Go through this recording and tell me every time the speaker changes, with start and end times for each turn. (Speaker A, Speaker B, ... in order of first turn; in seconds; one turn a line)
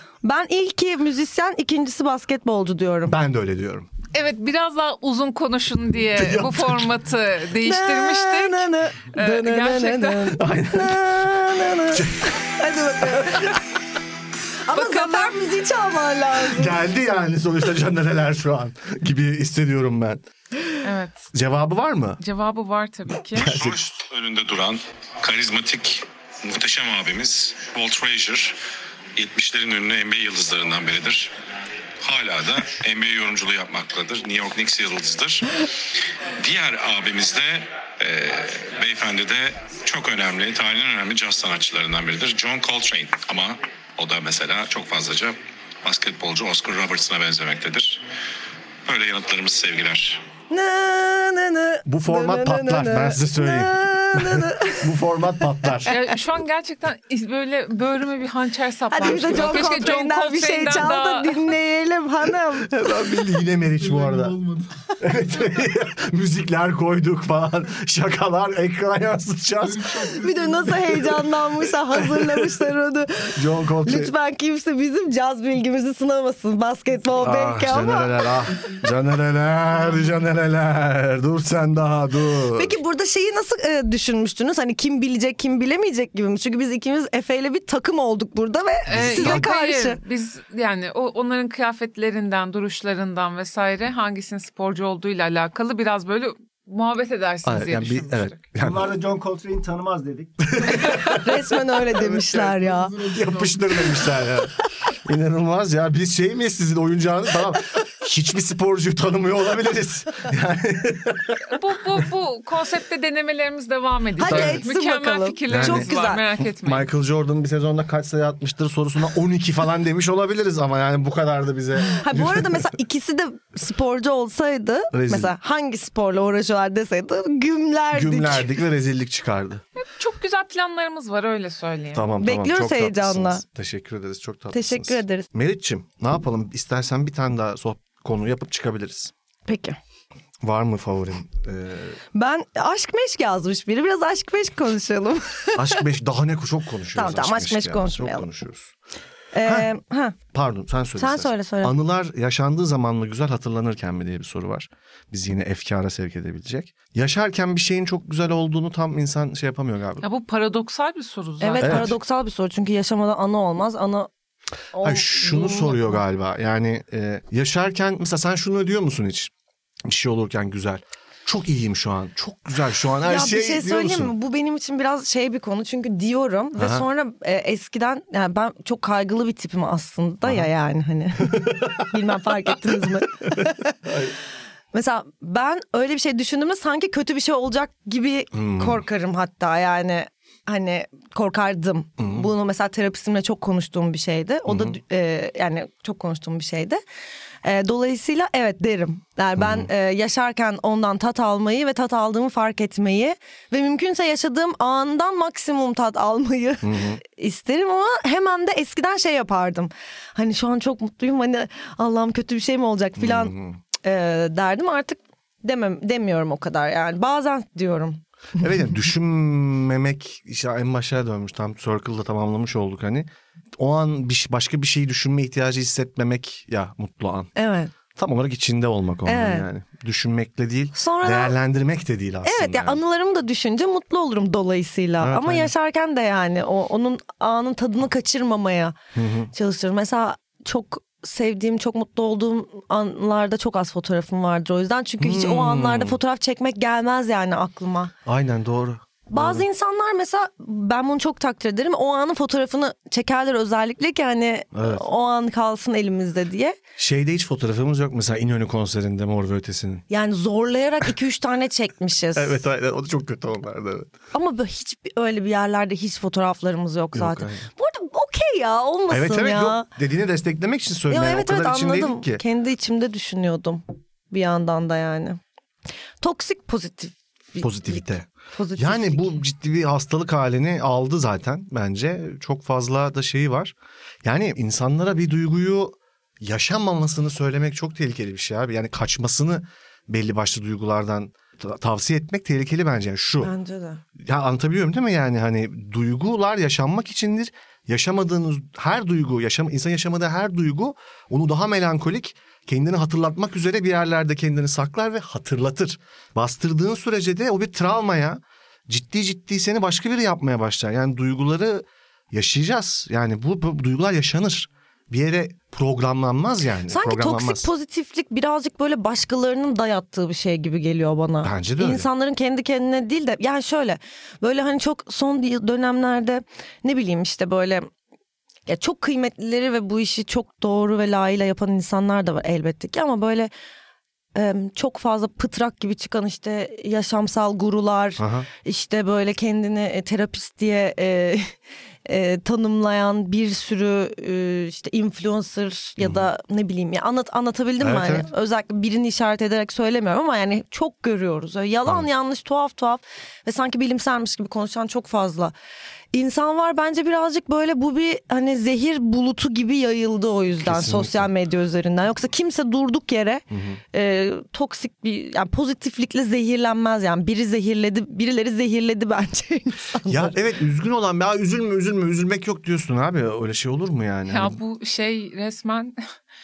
Speaker A: 0.2-3.1
Speaker B: 3.1-3.9
Speaker C: 4.1-10.4
Speaker B: 6.1-6.9
Speaker A: 7.6-13.6
Speaker B: 10.4-11.2
Speaker B: 11.9-12.3
Speaker B: 13.0-13.5
Speaker A: 14.7-16.8
Speaker C: 14.7-15.4
Speaker B: 16.4-20.2
Speaker C: 20.8-21.3
Speaker B: 21.3-22.2
Speaker C: 22.2-23.6
Speaker B: 23.4-23.8
Speaker D: 23.4-28.6
Speaker D: 29.2-31.3
Speaker D: 32.0-35.6
Speaker D: 36.4-48.0
Speaker D: 48.9-50.2
Speaker A: 50.5-55.9
Speaker B: 51.9-56.0
Speaker C: 55.9-61.4
Speaker A: 58.9-62.7
Speaker B: 62.6-64.5
Speaker B: 65.0-72.5
Speaker A: 70.0-78.3
Speaker B: 73.3-74.1
Speaker B: 77.2-82.8
Speaker A: 82.5-90.0
Speaker C: 88.9-98.4
Speaker B: 88.9-89.5
Speaker B: 97.5-99.0
Speaker E: 98.6-101.0
Speaker B: 100.5-101.4
Speaker A: 100.9-103.2
Speaker B: 102.0-102.5
Speaker B: 103.0-104.5
Speaker B: 105.0-111.6
Speaker C: 111.5-116.9
Speaker A: 114.2-116.2
Speaker B: 114.2-114.6
Speaker B: 115.5-115.9
Speaker B: 116.6-122.7
Speaker A: 121.9-128.5
Speaker B: 124.9-125.3
Speaker B: 127.9-129.6
Speaker C: 130.0-132.1
Speaker B: 131.9-139.1
Speaker A: 132.2-133.4
Speaker A: 134.5-135.3
Speaker A: 139.5-139.8
Speaker B: 140.4-142.0
Speaker A: 142.1-145.8
Speaker B: 145.6-148.7
Speaker A: 146.9-148.3
Speaker A: 149.3-150.2
Speaker B: 150.3-160.1
Speaker A: 151.0-151.8
Speaker C: 160.0-161.9
Speaker A: 161.4-164.1
Speaker B: 161.6-161.9
Speaker A: 164.7-166.0
Speaker B: 164.8-169.3
Speaker B: 169.8-174.1
Speaker A: 173.0-183.8
Speaker B: 176.6-176.8
Speaker B: 181.2-181.9
Speaker B: 183.3-184.1
Speaker A: 184.7-196.8
Speaker B: 188.3-188.8
Speaker B: 192.0-192.3
Speaker B: 194.5-194.8
Speaker A: 197.4-218.0
Speaker B: 199.4-199.7
Speaker B: 206.6-207.0
Speaker B: 213.0-213.6
Speaker B: 218.4-227.3
Speaker A: 227.4-227.7
Speaker B: 228.0-232.8
Speaker A: 229.1-229.5
Speaker A: 230.7-231.3
Speaker A: 232.2-238.8
Speaker B: 235.0-235.5
Speaker B: 238.9-239.3
Speaker A: 239.3-247.9
Speaker B: 245.0-246.0
Speaker B: 248.1-249.5
Speaker A: 249.1-256.6
Speaker B: 254.5-254.8
Speaker B: 256.8-259.9
Speaker A: 259.9-262.4
Speaker B: 262.1-263.9
Speaker A: 264.1-269.7
Speaker B: 266.9-267.5
Speaker B: 268.9-272.2
Speaker A: 270.9-275.2
Speaker A: 276.0-279.2
Speaker B: 277.4-293.3
Speaker A: 293.2-293.8
Speaker B: 294.0-317.5
Speaker A: 316.7-327.7
Speaker B: 321.2-321.9
Speaker A: 328.5-333.3
Speaker A: 334.1-355.3
Speaker B: 338.0-338.3
Speaker B: 347.6-348.1
Speaker A: 355.9-370.2
Speaker B: 360.4-361.1
Speaker B: 363.3-363.6
Speaker B: 369.9-374.4
Speaker C: 374.1-375.8